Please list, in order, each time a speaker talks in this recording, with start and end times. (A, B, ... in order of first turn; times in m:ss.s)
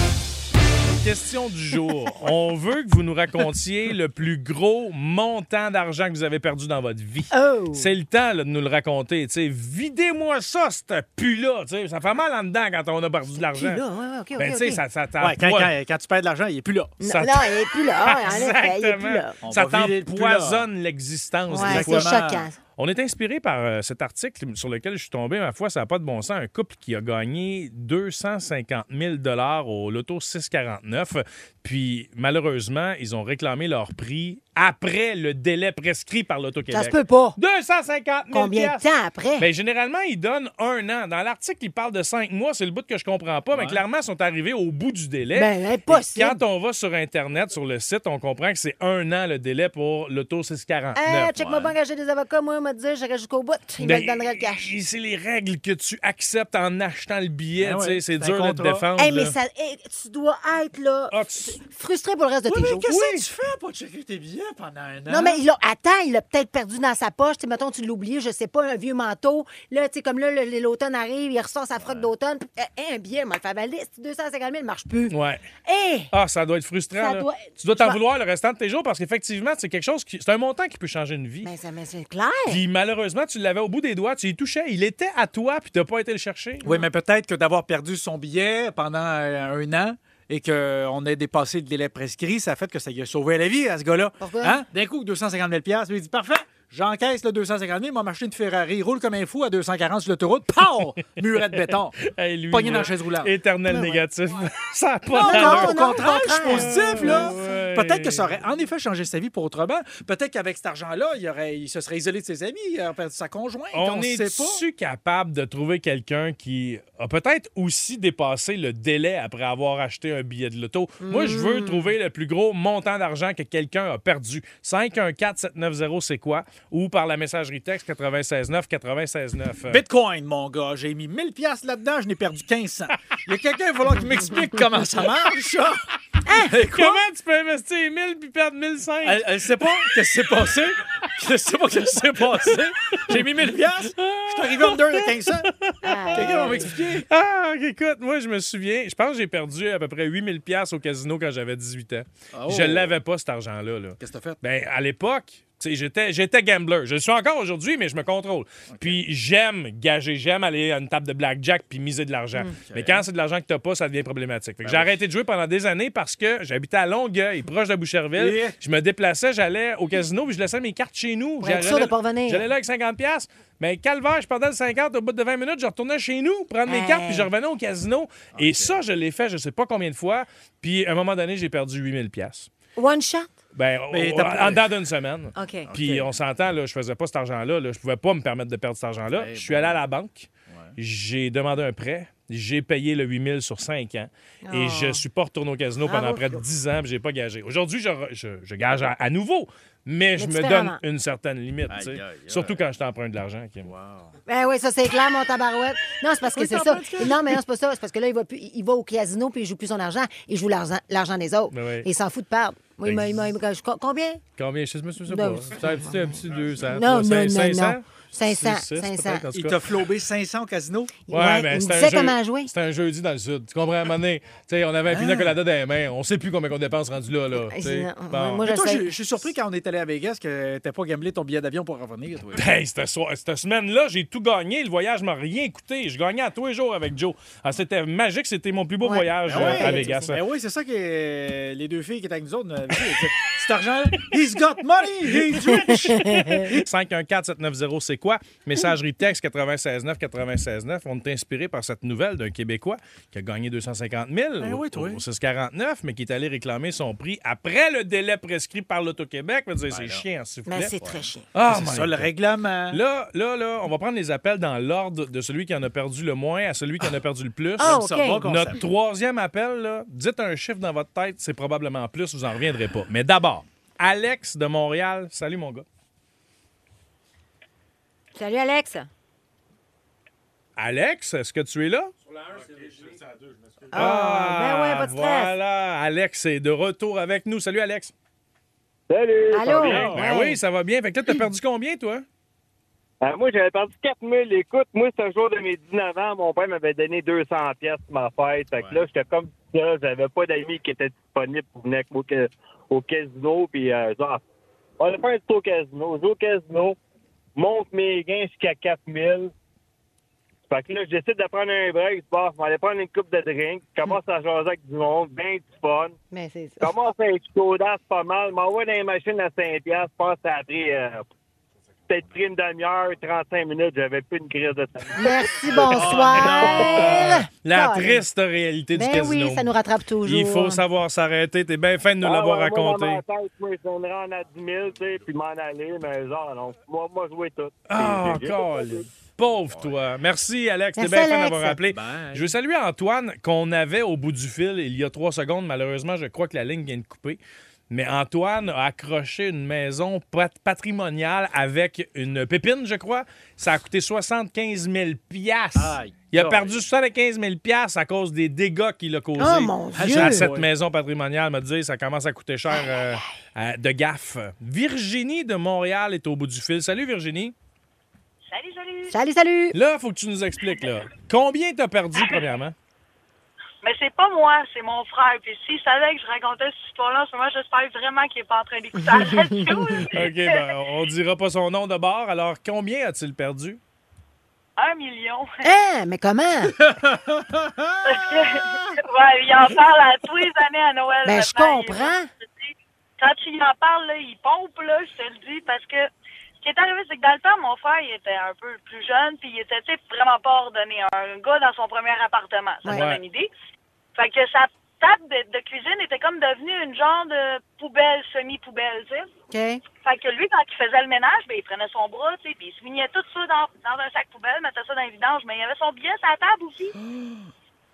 0:01.0-0:13.8 A
0:07.3-0:07.9 B
0:13.5-0:14.8 B
0:14.4-0:15.7 A
0:15.2-0:17.0 C
0:17.0-0:19.4 B
0:17.0-0:22.1 A
0:19.4-0:20.7 C
0:21.5-0:22.6 B
0:21.6-0:22.5 C
0:22.8-0:38.8 A
0:36.7-0:37.4 B
0:38.3-0:39.5 B
0:39.4-0:51.7 A
0:43.5-0:43.8 C
0:45.3-0:46.4 B
0:51.0-0:54.7 B
0:53.8-0:59.4 A
0:57.6-0:58.9 C
0:59.0-1:02.9 B
1:01.1-1:01.6 A
1:02.5-1:05.4 C
1:05.1-1:16.1 B
1:15.1-1:15.4 A
1:16.1-1:21.5 A
1:17.0-1:18.0 B
1:21.4-1:22.6 B
1:22.5-1:26.6 A
1:26.6-1:43.3 C
1:34.2-1:34.6 B
1:42.0-1:48.3 A
1:43.7-1:44.0 B
1:45.2-1:54.6 C
1:45.2-1:47.4 B
1:53.7-2:09.8 A
2:01.0-2:01.9 B
2:09.7-2:15.8 C
2:16.3-2:16.5 B
2:16.4-2:17.0 C
2:16.7-2:19.4 A
2:19.0-2:25.5 C
2:22.9-2:23.3 A
2:24.0-2:26.5 A
2:25.8-2:26.7 B
2:26.1-2:27.1 C
2:27.1-3:02.5 A
2:32.3-2:33.0 C
2:34.0-2:34.4 C
2:38.7-2:39.0 C
2:42.7-2:43.0 C
2:44.6-2:45.0 C
2:48.2-2:48.6 C
2:51.4-2:52.4 B
2:56.7-2:57.3 B
2:58.3-2:58.8 C
3:02.8-3:03.3 B
3:03.5-3:23.7 A
3:03.9-3:04.8 C
3:05.4-3:05.7 B
3:05.7-3:06.2 C
3:09.1-3:09.8 C
3:10.5-3:10.8 C
3:14.4-3:15.0 B
3:15.8-3:16.4 B
3:20.2-3:20.8 B
3:21.7-3:22.6 C
3:23.6-3:24.1 C
3:24.3-3:34.2 B
3:26.3-3:27.4 C
3:31.5-3:31.9 A
3:32.8-3:33.3 A
3:34.4-3:39.6 A
3:35.1-3:36.2 B
3:36.7-3:39.2 B
3:39.3-3:41.0 C
3:41.1-3:42.5 B
3:41.1-3:48.4 A
3:44.9-3:45.4 C
3:47.4-3:48.9 B
3:48.4-3:52.5 C
3:52.4-4:00.2 A
3:58.8-4:00.1 B
3:59.3-4:06.6 C
4:05.3-4:20.7 A
4:05.6-4:06.5 B
4:14.4-4:15.0 C
4:19.7-4:20.0 C
4:20.5-4:21.3 B
4:21.3-4:22.1 A
4:21.5-4:22.8 C
4:22.7-4:35.6 A
4:27.6-4:28.6 C
4:27.6-4:28.3 B
4:38.2-4:38.9 B
4:40.6-4:41.9 A
4:42.3-4:43.7 C
4:43.7-4:45.3 B
4:43.7-4:47.9 A
4:48.9-4:49.9 D
4:49.3-4:50.4 B
4:49.5-4:52.0 A
4:49.6-4:50.1 C
4:53.0-5:04.2 D
4:58.6-4:58.8 C
5:04.8-5:06.8 D
5:07.4-5:09.3 D
5:10.5-5:16.0 D
5:16.1-5:16.7 B
5:16.6-5:21.0 D
5:21.9-5:26.6 D
5:24.9-5:28.0 B
5:25.6-5:27.2 C
5:25.8-5:29.5 A
5:28.8-5:30.6 B
5:30.0-5:33.0 A
5:32.0-5:38.9 D
5:37.7-5:47.2 A
5:39.5-5:39.8 C
5:40.8-5:41.6 B
5:41.7-5:42.4 C
5:47.7-6:07.3 A
5:55.6-5:56.6 C
5:59.2-6:00.3 B
5:59.7-6:00.5 C
6:08.3-6:09.0 E
6:08.9-6:09.6 B
6:09.5-6:12.6 A
6:13.6-6:20.5 E
6:18.8-6:19.6 B
6:19.9-6:23.6 A
6:24.6-6:25.3 E
6:25.4-6:26.6 B
6:26.6-6:28.7 C
6:27.8-6:32.5 E
6:31.0-6:32.1 B
6:33.0-6:35.9 E
6:36.4-6:43.3 E
6:42.7-6:43.0 A
6:44.0-6:49.1 E
6:49.3-6:49.6 B
6:49.8-6:56.8 E
6:56.9-6:57.2 C